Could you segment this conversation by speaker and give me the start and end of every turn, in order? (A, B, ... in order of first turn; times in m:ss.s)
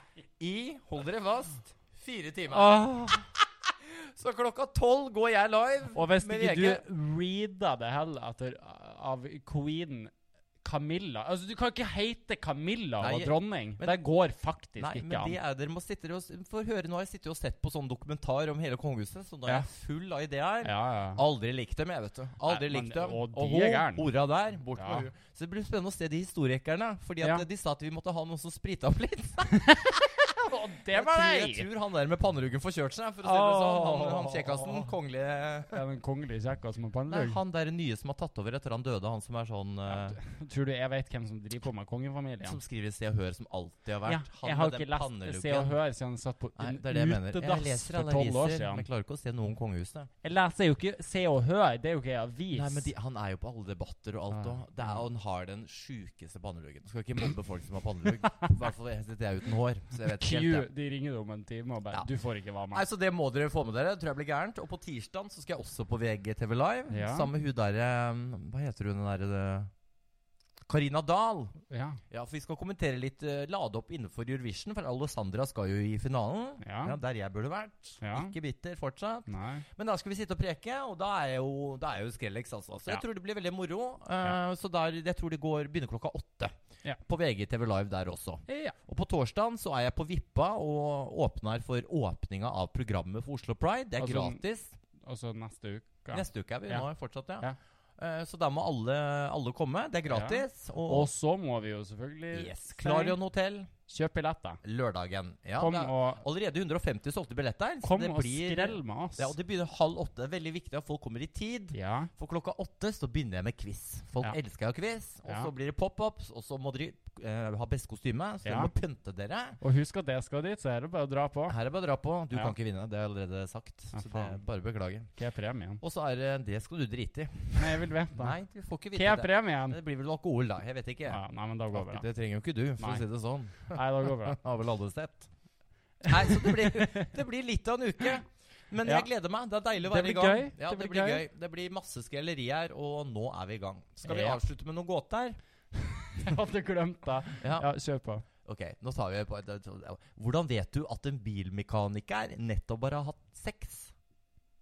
0:00.4-0:06.8 A
0:02.5-0:03.3 B
0:05.9-0:10.1 B
0:10.6-0:15.4 B
0:13.0-0:14.0 A
0:14.8-0:35.8 A
0:20.6-0:21.2 B
0:22.4-0:24.1 B
0:24.8-0:25.1 B
0:29.5-0:31.7 B
0:33.2-0:34.9 B
0:35.7-0:37.4 B
0:37.1-0:40.2 A
0:39.9-0:42.6 B
0:42.4-0:45.8 A
0:44.0-0:48.9 B
0:46.6-0:50.1 A
0:50.2-0:52.9 B
0:52.5-1:00.7 A
0:54.3-0:55.0 B
1:00.0-1:02.8 B
1:02.7-1:09.7 A
1:06.9-1:07.3 B
1:10.7-1:11.5 A
1:11.7-1:12.0 B
1:12.1-1:26.5 A
1:16.6-1:17.0 B
1:18.0-1:18.3 B
1:19.3-1:19.6 B
1:27.0-1:34.8 A
1:28.5-1:28.8 B
1:34.0-1:34.4 B
1:35.0-1:36.9 B
1:36.1-1:41.1 A
1:40.1-1:43.2 B
1:42.3-1:43.7 A
1:43.9-1:44.6 B
1:44.6-1:59.6 A
1:45.6-1:46.2 B
1:47.8-1:49.3 B
1:51.7-1:52.1 B
1:58.4-1:58.7 B
1:59.6-2:01.6 B
2:01.5-2:05.1 A
2:03.9-2:04.4 B
2:05.1-2:05.8 B
2:05.8-2:15.3 A
2:07.6-2:08.4 B
2:08.9-2:09.8 B
2:11.1-2:12.1 B
2:12.8-2:13.0 B
2:13.6-2:14.4 B
2:16.0-2:17.1 B
2:16.0-2:25.4 A
2:19.8-2:21.2 B
2:24.0-2:24.4 B
2:25.7-2:28.2 B
2:27.4-2:27.7 A
2:28.4-2:33.9 A